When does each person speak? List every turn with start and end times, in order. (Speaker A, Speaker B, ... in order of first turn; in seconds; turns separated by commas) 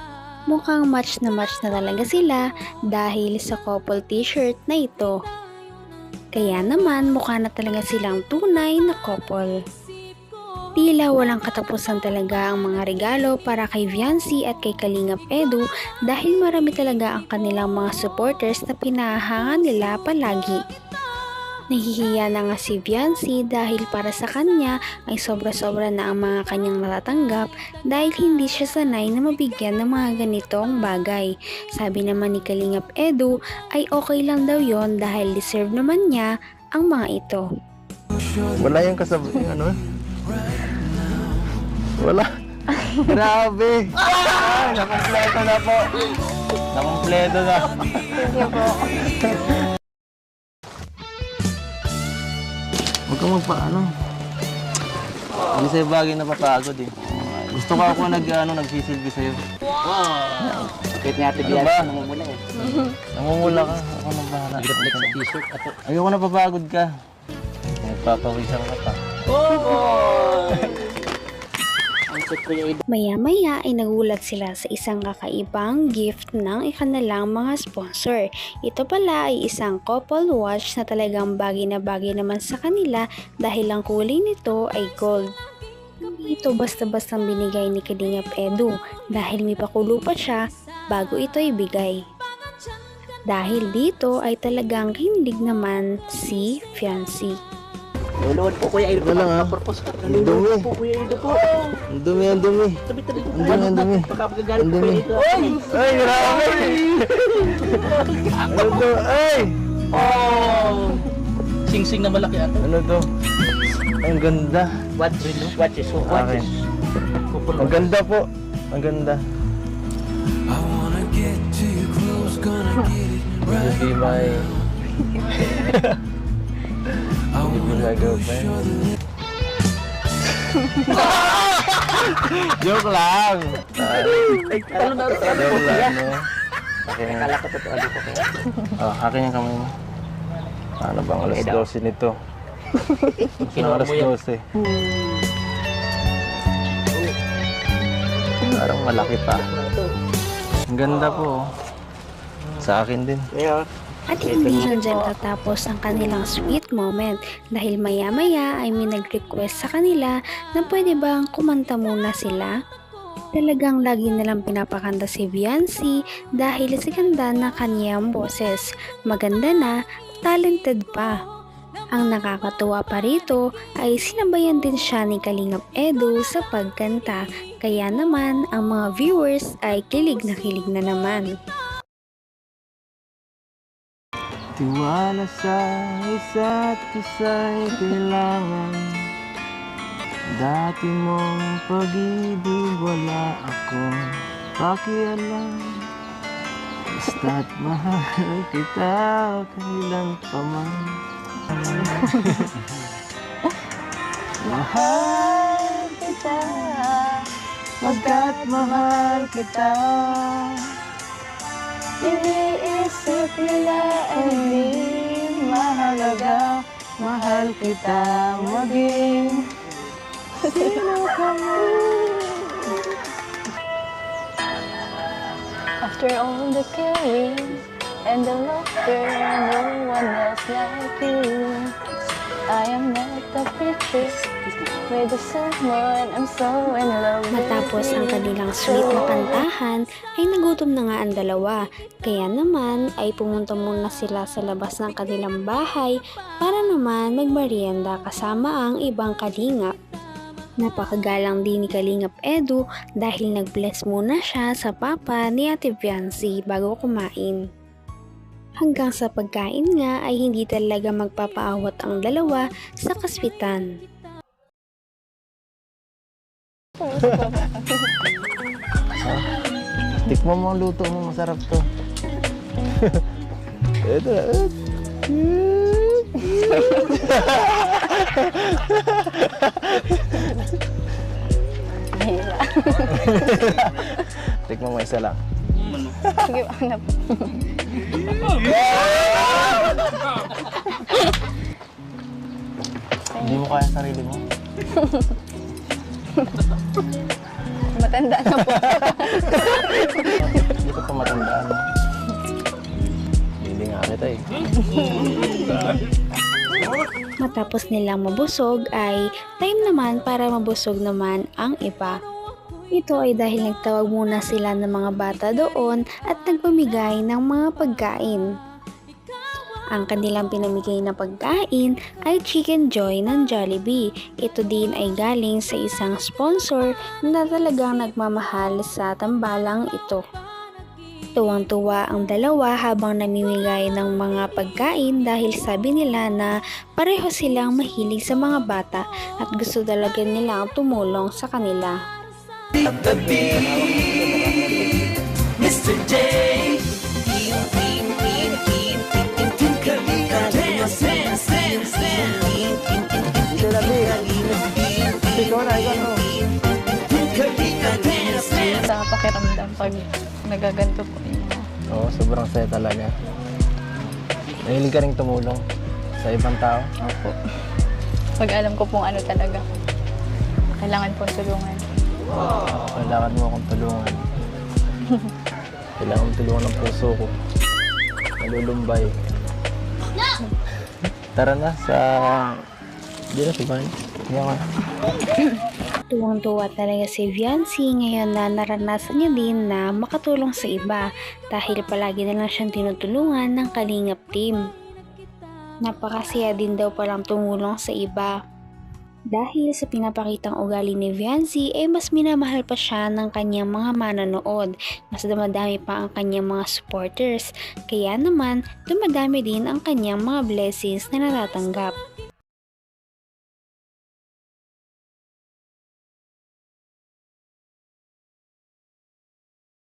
Speaker A: 0.5-5.2, Speaker A: 6.3-9.5, Speaker A: 10.8-20.6, Speaker A: 21.7-37.4, Speaker B: 38.5-39.8, Speaker B: 42.0-42.3, Speaker B: 43.0-45.8, Speaker B: 46.7-47.9, Speaker C: 48.1-49.1, Speaker B: 49.2-49.6, Speaker B: 53.1-53.9, Speaker B: 55.5-59.4, Speaker B: 60.4-60.7, Speaker D: 61.0-62.5, Speaker B: 61.4-62.0, Speaker B: 62.7-65.2, Speaker D: 64.6-65.8, Speaker B: 65.9-66.9, Speaker B: 67.8-69.0, Speaker D: 69.3-70.7, Speaker D: 72.1-72.8, Speaker A: 72.9-85.2, Speaker A: 86.0-90.4, Speaker A: 90.9-92.0, Speaker A: 93.3-97.3, Speaker D: 98.2-101.8, Speaker B: 98.9-100.7, Speaker B: 101.9-102.8, Speaker D: 102.9-105.7, Speaker B: 103.3-109.6, Speaker D: 108.3-108.8, Speaker D: 109.9-111.0, Speaker D: 111.7-112.6, Speaker B: 112.6-113.1, Speaker B: 114.0-114.7, Speaker D: 115.0-116.5, Speaker B: 116.0-116.5, Speaker D: 117.3-117.9, Speaker B: 117.5-119.2, Speaker B: 122.0-122.3, Speaker B: 123.4-124.5, Speaker B: 125.5-126.0, Speaker B: 127.3-128.7, Speaker B: 130.9-134.4, Speaker D: 133.8-136.0, Speaker B: 135.2-136.2, Speaker B: 136.8-137.3, Speaker D: 137.0-138.3, Speaker B: 138.8-139.7, Speaker B: 140.8-142.1, Speaker D: 141.3-141.7, Speaker B: 143.4-144.4, Speaker D: 143.5-144.1, Speaker B: 148.5-149.4, Speaker D: 149.6-149.9, Speaker B: 150.7-151.4, Speaker B: 152.6-153.2, Speaker D: 153.3-153.7, Speaker A: 154.1-162.5, Speaker D: 154.2-154.8, Speaker A: 163.3-169.7, Speaker A: 170.2-171.1, Speaker A: 171.9-181.3, Speaker B: 184.6-189.0, Speaker B: 190.4-194.1, Speaker B: 194.6-195.9, Speaker B: 196.9-201.0, Speaker B: 201.5-202.5, Speaker C: 201.8-202.4, Speaker B: 204.4-207.1, Speaker C: 204.5-207.0, Speaker B: 207.8-210.7, Speaker C: 207.8-209.3, Speaker C: 212.0-216.4, Speaker B: 213.7-219.4, Speaker C: 217.2-218.9, Speaker C: 220.4-221.7, Speaker B: 220.4-222.5, Speaker C: 225.8-231.8, Speaker C: 232.5-234.2, Speaker C: 234.9-239.4, Speaker A: 237.3-249.7, Speaker A: 250.6-257.4, Speaker A: 258.6-263.7, Speaker C: 266.8-267.7, Speaker B: 269.0-269.3, Speaker B: 270.0-271.6, Speaker B: 272.7-273.0, Speaker B: 273.9-274.5, Speaker B: 275.1-280.2, Speaker C: 276.2-277.1, Speaker C: 281.9-283.5, Speaker B: 283.0-285.2, Speaker B: 285.9-286.3, Speaker C: 286.1-287.6, Speaker B: 288.5-289.5, Speaker C: 293.1-293.4, Speaker B: 293.2-294.2, Speaker C: 294.8-295.1, Speaker C: 297.8-300.4, Speaker B: 298.4-299.4, Speaker B: 300.2-301.6, Speaker B: 303.4-304.2, Speaker C: 304.7-305.3, Speaker A: 307.2-312.0, Speaker A: 312.7-318.2, Speaker A: 319.7-330.0, Speaker A: 331.2-341.8, Speaker B: 342.6-344.9, Speaker B: 345.5-346.6, Speaker B: 349.4-352.5, Speaker B: 353.1-356.0, Speaker C: 358.0-361.4, Speaker B: 361.7-362.9, Speaker B: 364.4-365.4, Speaker B: 366.0-366.7, Speaker C: 366.8-367.2, Speaker C: 368.2-369.4, Speaker C: 370.6-371.6, Speaker B: 372.5-374.0, Speaker B: 375.8-377.1, Speaker B: 378.2-378.9, Speaker B: 381.1-382.3, Speaker B: 383.1-384.4, Speaker A: 385.9-394.4, Speaker A: 395.6-398.1, Speaker A: 399.1-411.7